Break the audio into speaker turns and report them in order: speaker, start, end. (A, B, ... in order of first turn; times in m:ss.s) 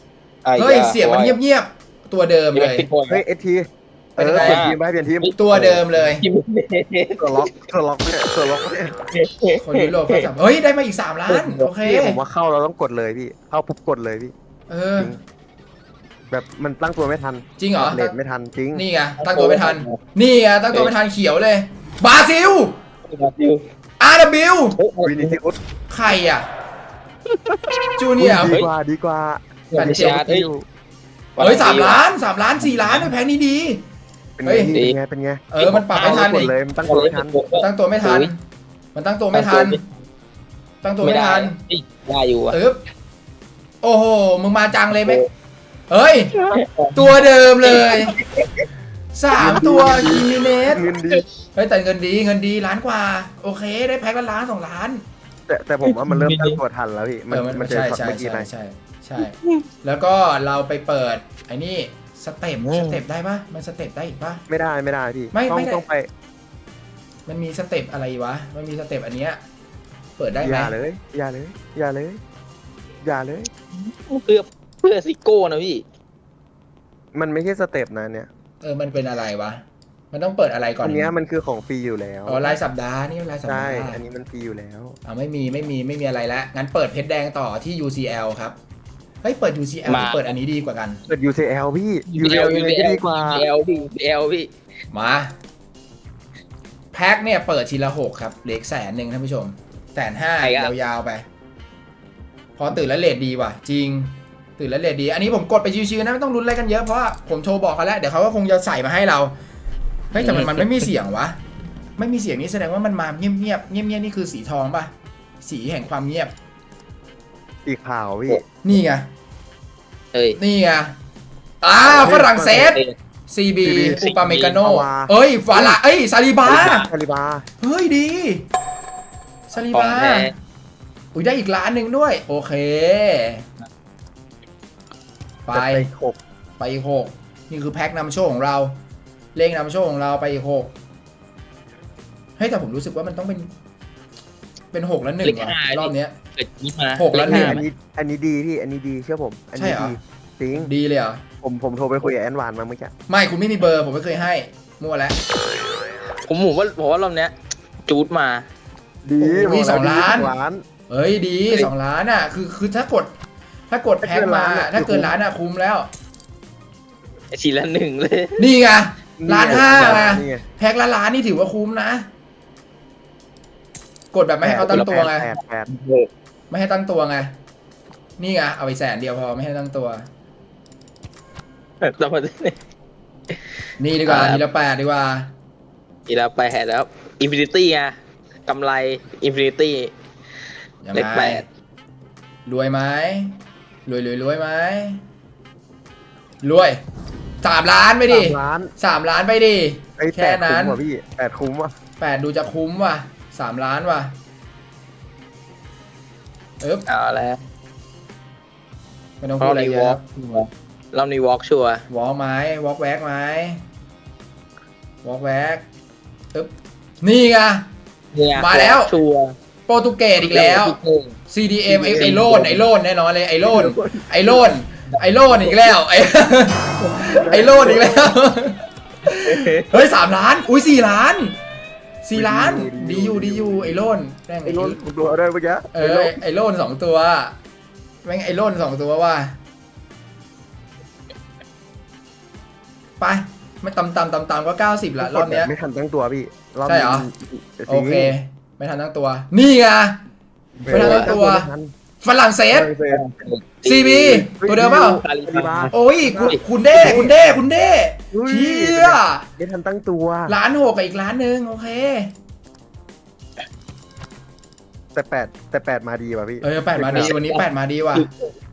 0:00.4-0:01.4 A
0:00.6-0:02.9 B
0:02.5-0:03.2 A
0:03.1-0:06.0 C
0:04.2-0:04.6 B
0:04.2-0:05.3 A
0:05.4-0:06.2 B
0:06.2-0:07.5 A
0:07.2-0:09.0 C
0:09.1-0:10.2 A
0:09.6-0:12.2 B
0:11.3-0:11.7 A
0:11.8-0:14.3 C
0:14.7-0:15.2 B
0:16.3-0:18.8 C
0:17.6-0:18.1 B
0:18.7-0:22.8 B
0:19.2-0:20.0 A
0:23.0-0:23.6 A
0:24.0-0:24.8 B
0:24.8-0:25.4 A
0:25.0-0:25.6 C
0:25.9-0:26.5 B
0:27.3-0:30.6 C
0:28.0-0:28.6 B
0:28.4-0:28.7 A
0:29.7-0:30.5 A
0:29.8-0:30.2 B
0:31.4-0:32.0 A
0:31.4-0:33.8 B
0:34.4-0:37.4 C
0:34.4-0:34.8 B
0:34.7-0:35.0 A
0:35.5-0:36.5 B
0:35.6-0:38.3 A
0:37.6-0:38.4 B
0:38.9-0:39.8 B
0:39.3-0:39.8 A
0:40.8-0:41.6 B
0:41.0-0:42.6 A
0:42.5-0:42.8 B
0:43.8-0:45.2 B
0:44.9-0:45.3 A
0:45.9-0:46.3 B
0:46.3-0:46.6 C
0:46.5-0:48.6 A
0:46.9-0:48.2 B
0:49.1-0:50.8 B
0:49.4-0:51.2 C
0:51.5-0:55.0 B
0:55.5-0:58.5 C
0:55.8-0:56.6 A
0:57.3-1:04.4 B
1:02.6-1:03.0 A
1:04.5-1:06.1 C
1:05.3-1:05.8 B
1:07.3-1:09.4 B
1:10.2-1:10.7 B
1:10.4-1:12.2 C
1:13.0-1:13.5 C
1:13.8-1:15.8 A
1:17.1-1:18.3 C
1:18.6-1:21.1 B
1:20.8-1:22.6 C
1:22.3-1:24.0 B
1:23.5-1:25.0 C
1:25.0-1:28.6 B
1:29.2-1:31.0 B
1:29.9-1:30.2 A
1:31.1-1:33.4 C
1:32.1-1:34.5 A
1:34.9-1:35.3 B
1:36.9-1:41.2 B
1:40.4-1:40.7 A
1:42.6-1:49.3 B
1:50.1-1:51.4 B
1:50.2-1:50.7 A
1:52.0-1:56.3 B
1:57.6-1:58.4 C
1:58.6-1:59.1 B
2:00.1-2:00.4 A
2:00.4-2:01.0 B
2:01.6-2:06.8 B
2:01.8-2:02.6 C
2:01.9-2:02.9 A
2:03.6-2:05.8 C
2:04.0-2:04.6 A
2:06.4-2:07.4 C
2:07.6-2:08.4 B
2:09.5-2:10.3 B
2:09.7-2:10.3 A
2:11.1-2:13.5 B
2:15.4-2:15.9 B
2:15.5-2:16.2 C
2:16.6-2:18.8 B
2:19.3-2:20.7 B
2:22.4-2:23.5 B
2:24.7-2:26.1 B
2:25.2-2:27.6 A
2:27.0-2:27.6 B
2:27.2-2:30.7 C
2:29.6-2:30.0 B
2:30.5-2:31.2 B
2:31.4-2:32.9 C
2:33.1-2:35.2 B
2:36.2-2:37.3 A
2:37.8-2:38.4 A
2:39.0-2:40.6 C
2:39.2-2:40.3 B
2:40.9-2:43.1 B
2:43.7-2:45.9 B
2:44.0-2:45.1 C
2:47.3-2:48.4 A
2:48.4-2:52.1 B
2:49.2-2:50.4 C
2:54.1-2:55.3 B
2:54.4-2:55.7 C
2:54.6-2:55.1 A
2:55.7-2:56.1 A
2:56.5-2:57.3 B
2:58.2-3:00.0 B
3:01.8-3:02.6 A
3:03.8-3:05.3 B
3:04.0-3:04.4 A
3:06.1-3:07.9 A
3:08.5-3:09.9 A
3:10.8-3:11.4 B
3:10.9-3:11.4 A
3:12.4-3:15.0 B
3:16.4-3:16.8 B
3:17.4-3:20.8 B
3:18.1-3:18.7 C
3:20.0-3:21.7 C
3:22.0-3:24.2 B
3:26.9-3:27.4 A
3:29.2-3:30.0 B
3:29.4-3:31.8 A
3:31.9-3:33.6 B
3:35.0-3:35.6 B
3:36.3-3:37.7 B
3:38.1-3:39.3 A
3:38.3-3:38.9 B
3:39.7-3:40.8 B
3:40.2-3:41.2 A
3:41.3-3:51.4 B
3:41.7-3:42.6 C
3:41.9-3:42.4 A
3:43.4-3:44.5 C
3:47.1-3:48.2 C
3:49.1-3:49.8 A
3:52.0-3:54.8 B
3:52.1-3:53.8 C
3:54.4-3:56.2 C
3:55.7-3:57.4 B
3:58.0-3:59.4 B
4:03.0-4:05.5 B
4:05.0-4:08.1 C
4:06.7-4:07.1 B
4:07.7-4:10.0 B
4:10.6-4:11.7 C
4:10.7-4:11.5 B
4:10.7-4:11.1 A
4:12.0-4:12.7 B
4:12.5-4:13.0 C
4:12.9-4:17.0 A
4:13.6-4:15.0 B
4:14.3-4:17.4 C
4:15.7-4:19.3 B
4:18.1-4:20.4 C
4:20.3-4:22.1 B
4:24.9-4:27.1 C
4:26.4-4:28.1 B
4:26.8-4:27.4 A
4:27.9-4:28.3 A